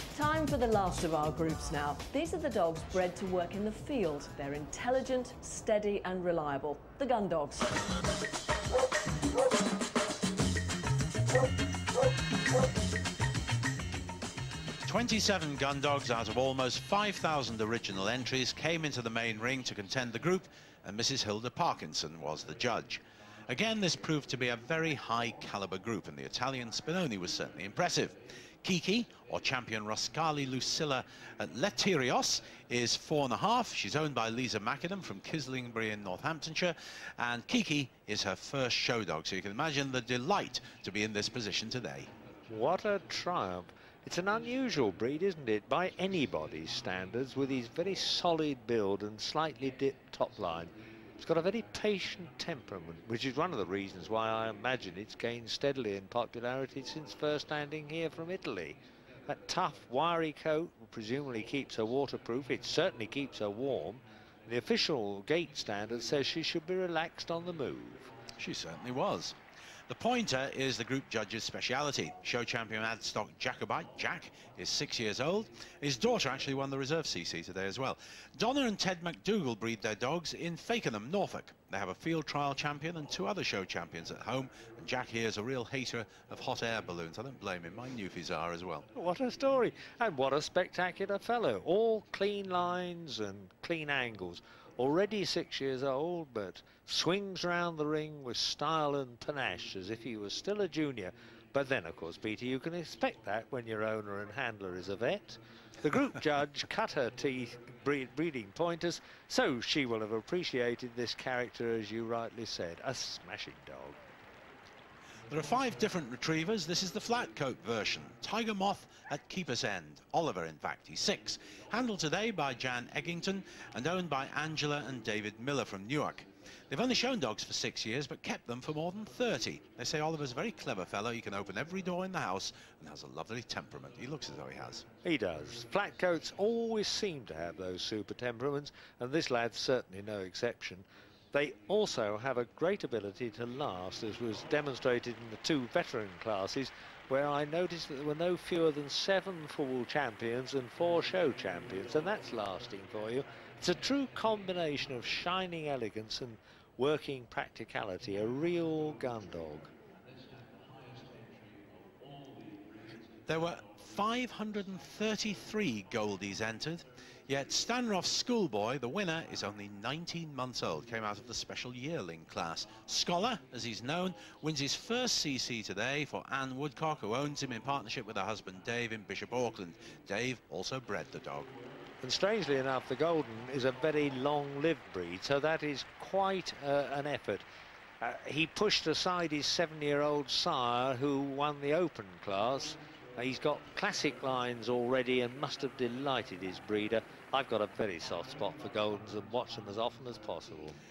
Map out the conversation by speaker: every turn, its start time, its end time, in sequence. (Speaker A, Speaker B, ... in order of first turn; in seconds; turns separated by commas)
Speaker A: 0.1-7.7, Speaker B: 14.8-42.1, Speaker C: 42.5-68.1, Speaker B: 68.4-69.4, Speaker B: 69.9-88.9, Speaker C: 88.9-114.0, Speaker B: 115.3-134.8, Speaker C: 135.0-159.7, Speaker B: 163.3-181.5, Speaker C: 182.0-187.4, Speaker C: 188.0-200.8